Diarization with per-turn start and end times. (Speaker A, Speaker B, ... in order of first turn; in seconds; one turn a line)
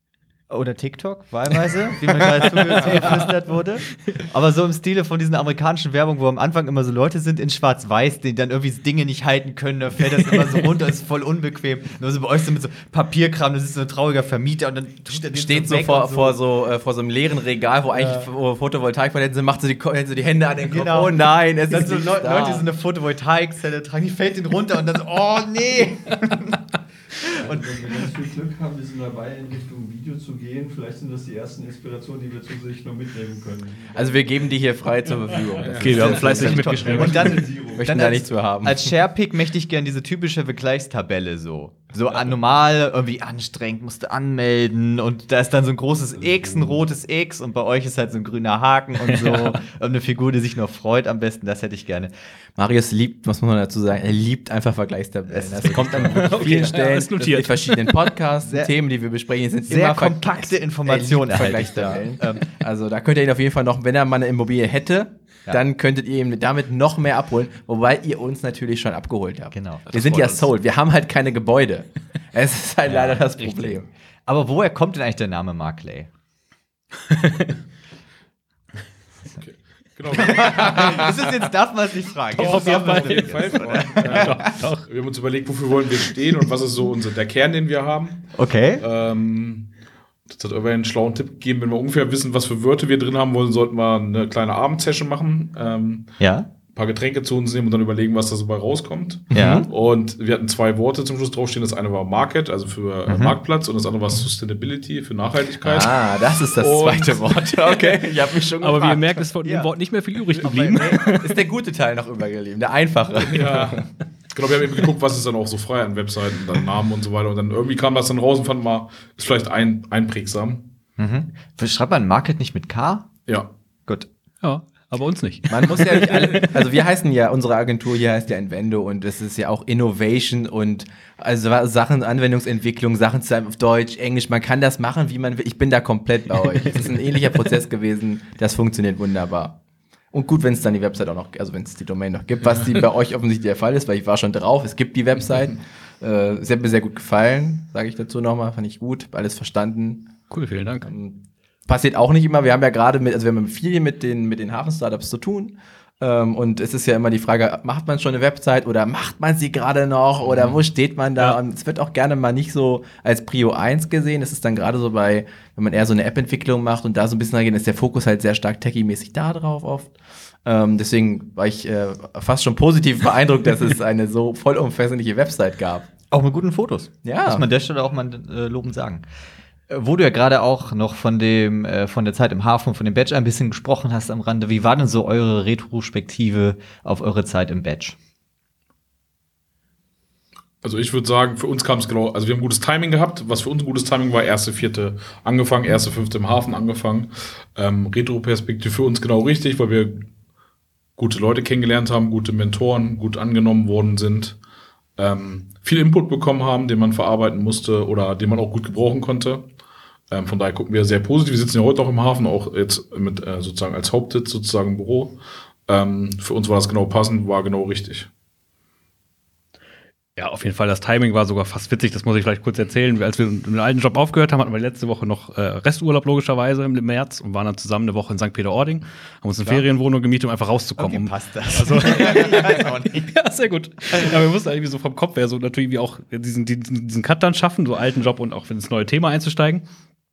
Speaker A: 0.5-16.4
Speaker B: 2.4-3.2
Speaker C: 15.1-22.7
Speaker A: 20.7-26.6
Speaker A: 27.2-27.9
Speaker D: 27.4-34.0
Speaker C: 33.9-38.9
Speaker E: 35.6-36.3
Speaker B: 35.8-37.3
Speaker D: 36.2-37.9
Speaker A: 36.9-52.1
Speaker B: 49.1-49.6
Speaker C: 52.6-73.9
Speaker A: 55.3-56.7
Speaker B: 55.6-57.9
Speaker A: 58.5-58.7
Speaker A: 59.7-62.5
Speaker A: 69.5-70.5
Speaker A: 72.8-76.1
Speaker B: 77.1-77.5
Speaker E: 79.4-81.3
Speaker A: 80.1-84.5
Speaker E: 82.3-89.7
Speaker B: 82.3-84.8
Speaker A: 88.4-88.8
Speaker E: 90.3-96.2
Speaker A: 96.2-96.5
Speaker E: 96.7-107.6
Speaker C: 99.3-99.7
Speaker A: 99.3-99.7
Speaker A: 103.1-103.4
Speaker C: 105.6-109.2
Speaker B: 108.6-111.4
Speaker A: 109.4-109.7
Speaker A: 110.4-111.0
Speaker C: 110.7-113.9
Speaker E: 113.2-120.7
Speaker A: 121.0-123.1
Speaker B: 124.4-126.5
Speaker C: 125.5-139.6
Speaker C: 140.1-150.1
Speaker B: 150.3-150.9
Speaker C: 150.8-169.9
Speaker C: 170.4-175.9
Speaker A: 176.1-179.0
Speaker C: 177.0-177.4
Speaker A: 179.7-187.9
Speaker E: 190.6-200.1
Speaker E: 201.0-204.4
Speaker E: 205.0-209.5
Speaker E: 210.1-218.1
Speaker B: 220.2-239.6
Speaker A: 230.8-233.1